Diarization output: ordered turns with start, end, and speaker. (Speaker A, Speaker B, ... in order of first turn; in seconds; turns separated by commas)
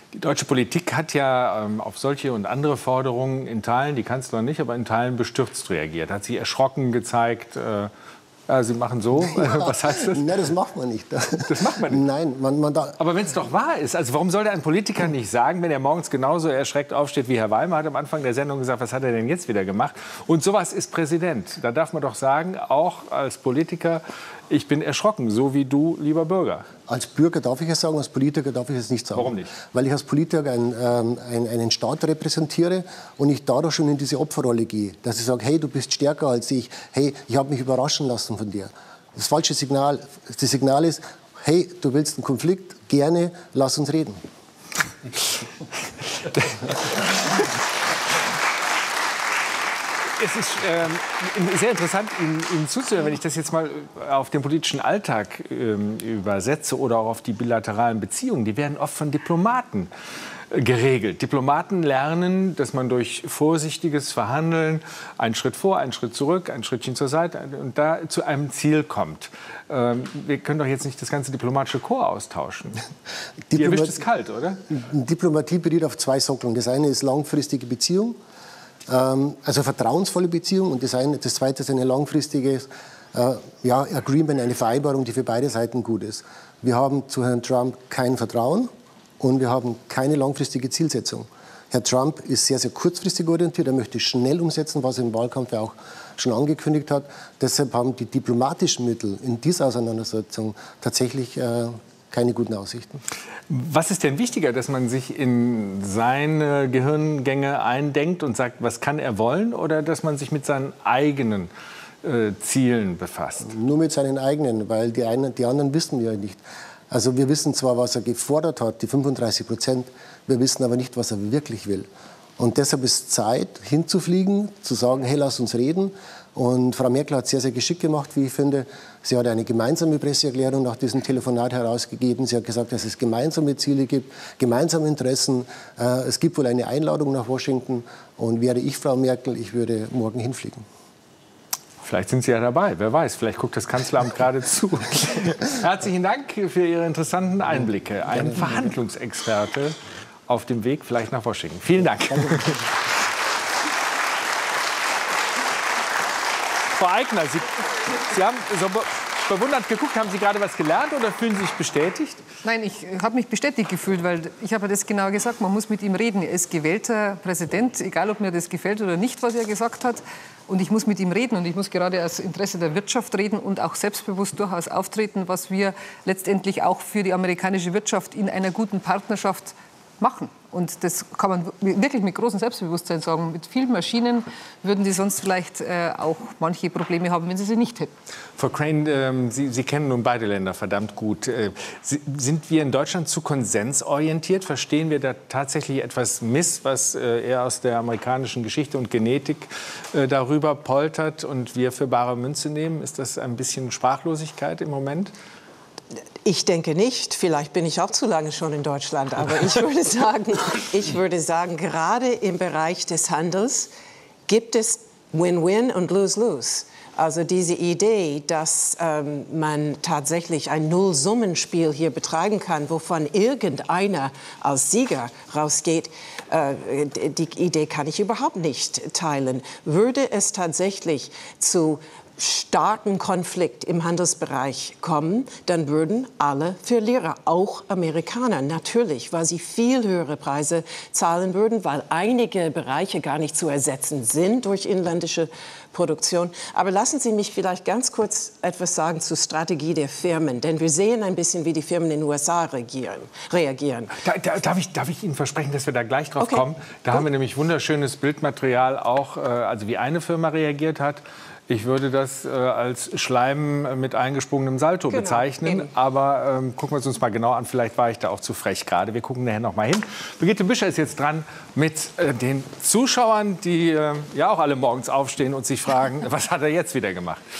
Speaker A: 0.1-7.9, Speaker A: 8.5-10.3, Speaker B: 9.3-12.9, Speaker A: 11.4-12.0, Speaker A: 13.0-26.6, Speaker B: 26.9-44.2, Speaker A: 29.1-29.5, Speaker A: 50.2-59.9, Speaker A: 60.5-72.8, Speaker B: 73.5-73.9, Speaker A: 73.5-74.6, Speaker B: 74.7-78.2, Speaker B: 78.9-103.0, Speaker A: 103.5-111.5, Speaker A: 112.0-113.5, Speaker B: 113.4-116.4, Speaker B: 116.9-121.9, Speaker B: 122.4-140.6, Speaker A: 141.8-149.8, Speaker A: 150.3-152.6, Speaker B: 152.1-152.5, Speaker A: 156.8-162.2, Speaker C: 162.4-187.9, Speaker A: 188.4-205.1, Speaker D: 206.2-213.7, Speaker D: 214.3-253.9, Speaker A: 254.0-277.2, Speaker D: 256.2-257.0, Speaker D: 264.9-265.7